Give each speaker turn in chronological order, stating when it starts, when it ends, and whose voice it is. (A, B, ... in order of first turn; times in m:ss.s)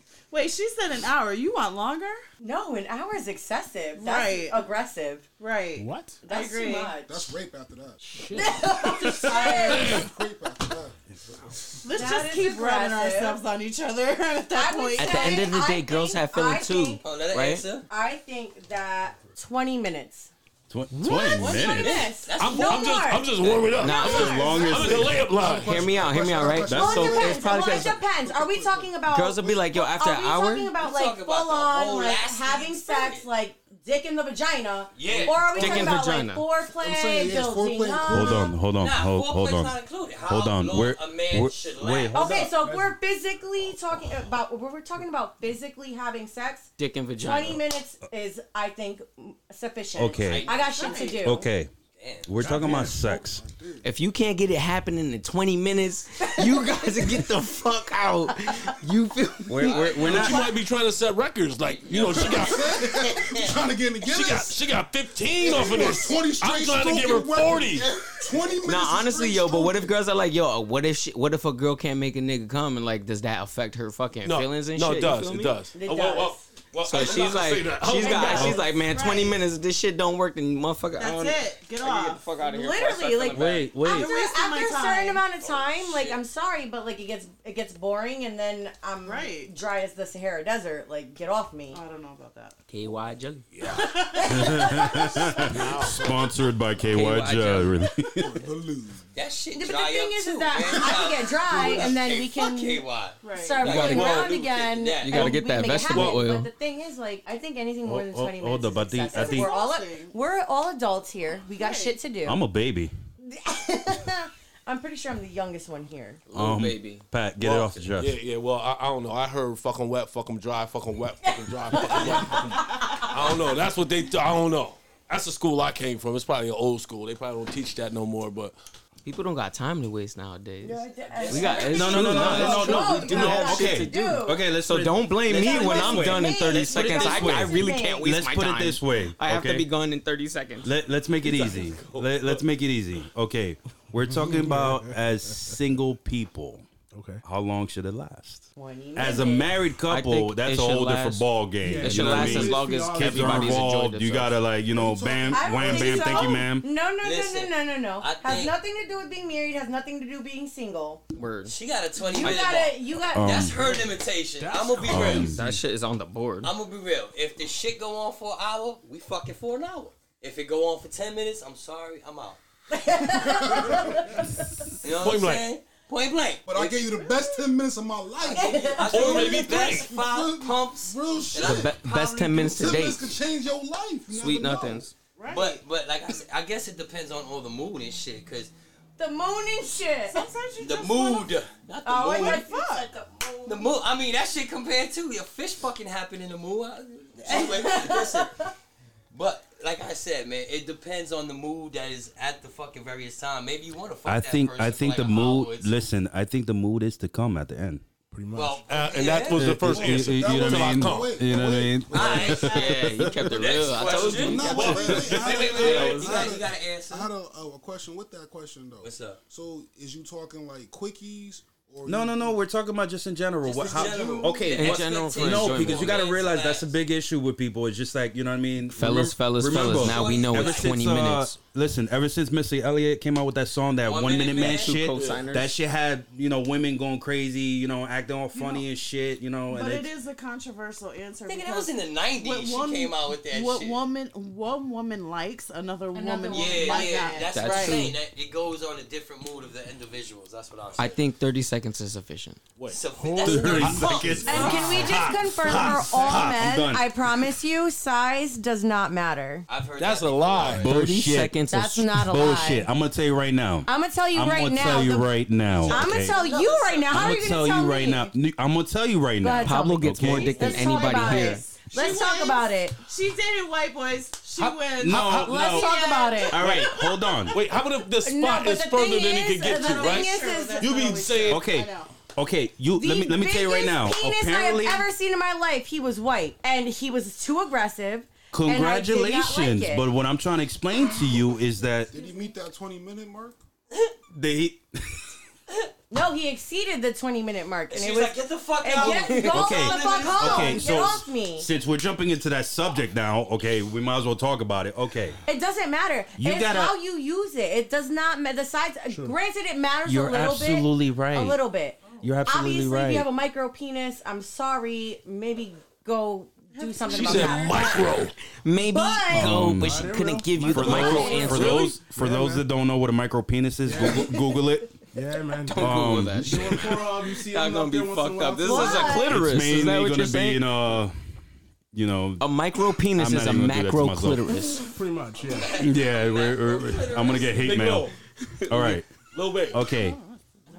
0:00.3-0:02.2 A
0:02.4-0:05.3 B
0:04.0-0:04.6 A
0:05.4-0:07.0 A
0:05.8-0:06.2 C
0:06.3-0:07.2 B
0:07.0-0:08.2 D
0:08.4-0:10.1 B
0:09.0-0:11.0 D
0:09.5-0:10.1 E
0:11.8-0:15.3 A
0:11.9-0:13.4 B
0:14.5-0:17.0 B
0:15.0-0:17.7 F
0:17.0-0:17.9 G
0:17.9-0:20.3 B
0:20.7-0:22.1 H
0:20.9-0:21.4 C
0:21.0-0:23.3 B
0:21.7-0:23.6 G
0:22.4-0:26.0 E
0:23.8-0:25.0 F
0:23.8-0:24.9 B
0:23.8-0:25.3 H
0:24.4-0:29.0 D
0:25.5-0:28.0 F
0:26.7-0:38.5 B
0:26.7-0:27.2 H
0:29.1-0:30.7 F
0:30.8-0:33.3 G
0:35.0-0:36.0 G
0:35.6-0:36.4 F
0:36.7-0:38.6 D
0:38.1-0:42.5 H
0:38.8-0:42.5 G
0:42.1-0:46.7 B
0:42.6-0:42.9 C
0:46.8-0:47.6 F
0:47.2-0:51.5 B
0:50.0-0:50.5 H
0:50.2-0:51.2 G
0:50.6-0:51.2 A
0:51.2-0:51.7 H
0:52.0-0:52.3 G
0:52.2-0:53.4 H
0:52.4-0:53.9 D
0:52.6-0:53.0 C
0:53.8-1:00.4 F
0:59.5-1:00.4 H
0:59.6-1:00.4 G
1:00.0-1:02.8 E
1:01.8-1:02.5 G
1:02.1-1:04.7 D
1:04.0-1:07.9 E
1:05.4-1:09.9 D
1:08.6-1:15.6 F
1:14.2-1:18.6 E
1:15.7-1:16.4 B
1:16.8-1:23.7 F
1:18.0-1:19.4 A
1:18.2-1:18.6 H
1:21.0-1:22.2 A
1:22.4-1:31.8 B
1:23.3-1:24.1 H
1:23.8-1:25.2 A
1:25.9-1:26.2 E
1:29.0-1:29.5 A
1:31.7-1:32.6 A
1:32.7-1:33.5 F
1:33.5-1:33.9 E
1:33.8-1:35.5 B
1:33.8-1:34.3 A
1:34.3-1:38.4 H
1:35.5-1:36.1 E
1:36.9-1:37.8 F
1:38.2-1:39.1 D
1:39.2-1:45.4 G
1:39.6-1:52.4 B
1:41.5-1:41.9 D
1:43.2-1:43.6 A
1:43.7-1:44.3 H
1:43.7-1:44.1 F
1:45.0-1:46.5 F
1:45.9-1:46.2 H
1:47.8-1:49.5 H
1:49.2-1:50.1 A
1:51.6-1:52.0 A
1:52.2-1:52.9 H
1:53.2-1:56.2 B
1:56.3-1:57.0 F
1:56.3-1:58.2 H
1:57.4-2:08.6 E
2:01.7-2:02.2 B
2:09.0-2:20.7 F
2:10.6-2:14.4 B
2:11.1-2:12.1 G
2:11.7-2:19.7 H
2:12.3-2:13.5 A
2:15.3-2:18.1 B
2:20.6-2:26.7 H
2:21.2-2:22.4 E
2:24.0-2:25.6 C
2:26.9-2:27.2 C
2:27.2-2:36.7 H
2:28.6-2:29.5 B
2:29.9-2:31.3 F
2:31.6-2:33.7 C
2:31.8-2:34.4 F
2:34.7-2:36.4 D
2:35.3-2:41.0 B
2:37.0-2:38.6 G
2:41.1-2:41.6 F
2:41.4-2:45.4 G
2:42.0-2:43.5 B
2:43.1-2:43.6 H
2:43.6-2:45.6 C
2:44.8-2:45.4 H
2:45.3-2:46.5 F
2:46.4-2:52.4 G
2:52.7-2:54.5 B
2:53.1-2:54.1 D
2:54.8-2:56.8 G
2:54.9-2:55.5 E
2:56.4-3:01.8 D
2:58.2-3:02.9 G
2:58.3-2:59.5 B
2:58.9-2:59.9 E
3:01.4-3:03.1 F
3:02.3-3:04.9 D
3:04.1-3:04.9 F
3:05.2-3:05.6 A
3:05.3-3:08.5 G
3:09.0-3:10.2 B
3:10.1-3:11.4 A
3:10.6-3:12.4 G
3:11.8-3:13.6 B
3:12.2-3:12.9 A
3:13.4-3:18.4 G
3:17.3-3:18.3 B
3:19.1-3:25.8 G
3:24.0-3:27.8 H
3:28.1-3:28.6 C
3:28.3-3:29.6 G
3:28.6-3:31.2 E
3:29.4-3:33.3 H
3:29.6-3:42.4 D
3:31.9-3:32.6 G
3:32.4-3:36.4 F
3:32.5-3:32.8 A
3:33.3-3:37.1 G
3:33.8-3:36.2 E
3:38.8-3:39.2 G
3:41.8-3:59.9 H
3:43.4-3:46.7 G
3:43.7-3:44.4 D
3:44.6-3:46.0 F
3:48.7-3:51.3 F
3:49.5-3:50.9 G
3:53.8-3:54.8 G
3:54.3-3:55.5 F
3:54.9-3:55.3 E
3:58.3-3:58.6 A
3:59.5-4:08.0 A
4:01.2-4:03.8 G
4:05.9-4:07.2 B
4:06.3-4:11.0 G
4:07.3-4:08.0 F
4:10.8-4:12.4 F
4:12.7-4:15.1 G
4:12.9-4:14.3 C
4:13.2-4:17.1 H
4:13.6-4:16.4 E
4:14.3-4:19.5 B
4:19.5-4:20.7 G
4:19.8-4:20.7 E
4:20.4-4:21.4 H
4:20.6-4:22.1 F
4:21.5-4:22.7 B
4:22.0-4:26.2 H
4:23.7-4:25.2 B
4:25.6-4:27.4 G
4:25.7-4:28.1 B
4:26.9-4:30.6 H
4:29.2-4:32.8 B
4:29.4-4:31.4 F
4:30.2-4:36.7 A
4:34.4-4:35.3 E
4:34.8-4:35.7 H
4:35.1-4:36.9 B
4:36.3-4:37.4 H
4:36.4-4:36.7 E
4:37.3-4:41.4 E
4:38.0-4:41.1 B
4:39.4-4:41.9 A
4:41.3-4:44.9 H
4:42.8-4:49.9 B
4:48.3-4:51.9 H
4:51.9-4:53.4 D
4:51.9-4:52.4 A
4:54.1-4:55.1 H
4:55.9-5:01.5 B
4:57.7-5:01.0 G
4:59.2-5:05.2 H
5:05.3-5:18.0 B
5:06.2-5:06.8 H
5:08.9-5:09.2 C
5:09.9-5:11.4 H
5:10.5-5:11.4 F
5:12.0-5:13.1 H
5:16.5-5:17.6 A
5:16.9-5:18.1 E
5:18.4-5:21.7 F
5:18.7-5:19.4 B
5:19.1-5:20.0 H
5:19.5-5:21.3 C
5:20.5-5:24.7 H
5:20.7-5:21.5 B
5:21.2-5:21.8 E
5:22.0-5:22.4 D
5:23.6-5:24.1 C
5:24.9-5:29.1 C
5:25.5-5:30.5 F
5:25.5-5:26.8 H
5:28.4-5:29.1 B
5:29.1-5:31.0 H
5:31.7-5:32.3 H
5:32.2-5:34.7 F
5:32.9-5:34.5 H
5:34.5-5:35.6 C
5:35.2-5:37.7 G
5:35.6-5:37.9 H
5:37.4-5:38.0 E
5:38.4-5:38.8 F
5:38.5-5:38.9 H
5:39.1-5:39.6 E
5:39.5-5:40.0 H